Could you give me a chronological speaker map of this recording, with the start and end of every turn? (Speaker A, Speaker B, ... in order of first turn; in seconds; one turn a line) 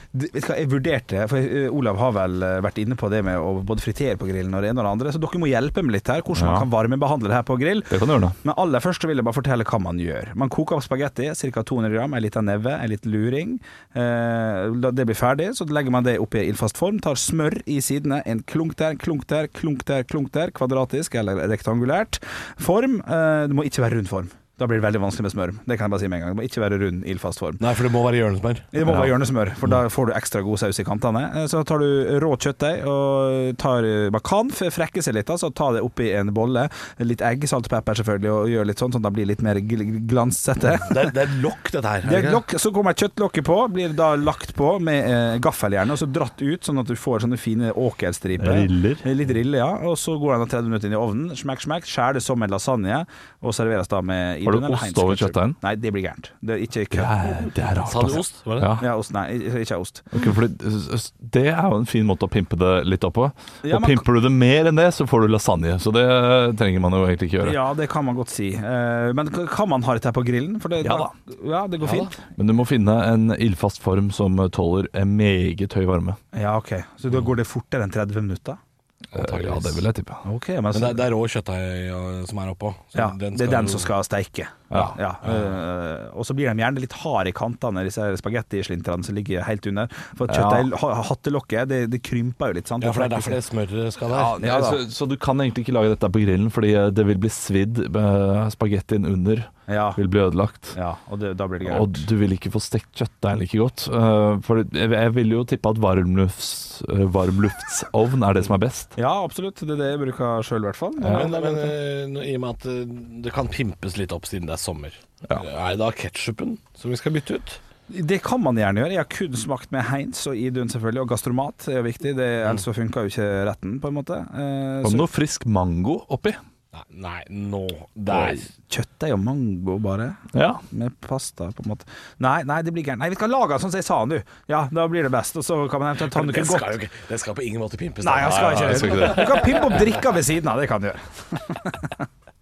Speaker A: 0.1-27.6
Speaker B: 6.3-6.7
Speaker B: 7.9-8.3
Speaker C: 27.6-28.7
Speaker A: 28.7-41.1
Speaker B: 28.8-29.1
Speaker C: 40.9-42.4
Speaker A: 42.0-57.1
Speaker B: 48.4-49.1
Speaker B: 54.4-55.6
Speaker B: 56.9-58.9
Speaker C: 57.8-58.7
Speaker A: 58.8-60.0
Speaker B: 60.1-67.6
Speaker A: 63.6-64.0
Speaker A: 67.4-72.2
Speaker B: 70.8-71.1
Speaker C: 71.8-72.1
Speaker B: 72.3-76.2
Speaker A: 76.3-78.6
Speaker B: 79.1-80.2
Speaker C: 79.1-79.8
Speaker A: 80.2-81.0
Speaker C: 80.7-83.9
Speaker A: 82.9-93.4
Speaker C: 84.7-85.5
Speaker B: 90.3-90.7
Speaker C: 92.8-94.4
Speaker B: 94.1-100.8
Speaker A: 94.4-94.8
Speaker A: 99.7-100.0
Speaker A: 100.7-102.0
Speaker B: 101.6-108.9
Speaker A: 109.0-111.8
Speaker B: 111.0-111.3
Speaker C: 111.0-117.6
Speaker A: 117.9-125.1
Speaker B: 124.8-126.4
Speaker C: 126.7-128.5
Speaker A: 128.1-130.2
Speaker B: 130.3-130.6
Speaker A: 130.7-136.8
Speaker C: 136.0-139.9
Speaker A: 138.0-142.0
Speaker B: 138.2-139.5